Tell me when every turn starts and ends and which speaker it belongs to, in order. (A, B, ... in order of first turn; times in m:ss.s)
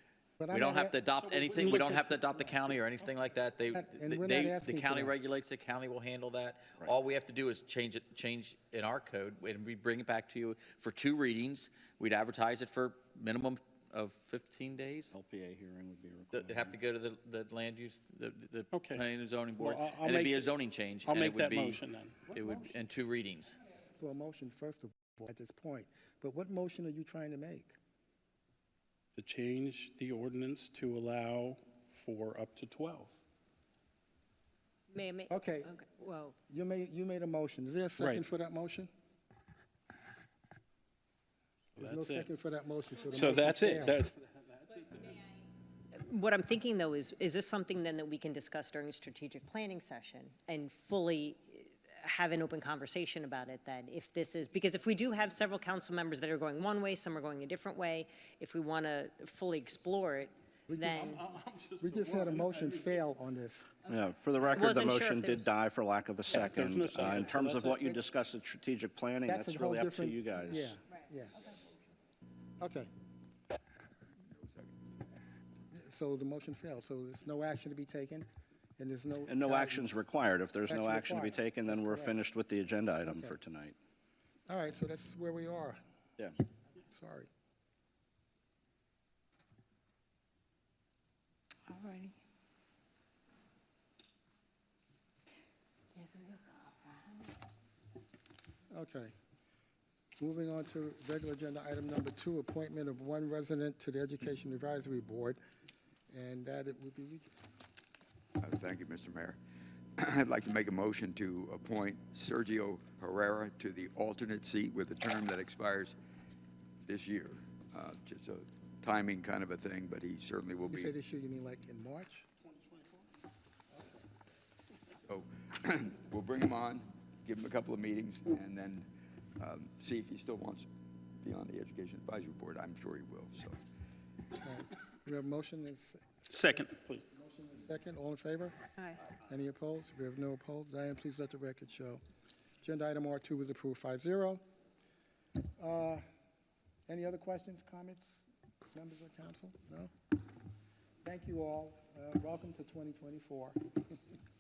0:00.4-0:01.0 A
0:00.5-0:15.1 B
0:01.1-0:02.1 C
0:01.6-0:02.8 A
0:03.7-0:05.2 A
0:15.1-0:16.8 D
0:16.3-0:21.8 B
0:18.7-0:19.0 C
0:19.6-0:22.2 C
0:22.3-0:22.8 A
0:22.3-0:23.6 B
0:23.8-0:27.8 A
0:29.2-0:33.2 C
0:34.9-0:36.3 E
0:35.3-0:35.8 A
0:36.4-0:38.9 A
0:38.0-0:38.2 C
0:41.8-0:44.1 A
0:41.8-0:42.3 C
0:43.1-0:45.2 C
0:46.0-1:01.2 E
1:00.7-1:01.2 A
1:00.8-1:02.9 C
1:01.8-1:03.7 A
1:03.9-1:10.8 D
1:04.5-1:05.5 E
1:06.3-1:07.8 C
1:09.2-1:11.4 A
1:12.6-1:12.9 A
1:15.7-1:18.3 A
1:18.8-1:20.0 A
1:19.3-1:23.8 D
1:20.7-1:22.2 A
1:23.0-1:23.4 A
1:24.5-1:25.8 A
1:26.9-1:27.3 A
1:36.0-1:36.8 E
1:38.7-1:39.2 A
1:40.2-1:45.4 A
1:46.1-1:47.3 A
1:48.4-1:49.4 F
1:50.0-1:56.0 F
1:56.8-2:00.9 F
2:00.7-2:02.3 A
2:02.5-2:03.1 C
2:05.1-2:10.7 F
2:11.2-2:13.6 F
2:14.4-2:16.0 A
2:16.3-2:17.1 C
2:17.1-2:22.0 A
2:22.6-2:24.4 A
2:25.6-2:26.0 A
2:26.9-2:29.9 A
2:31.0-2:34.0 A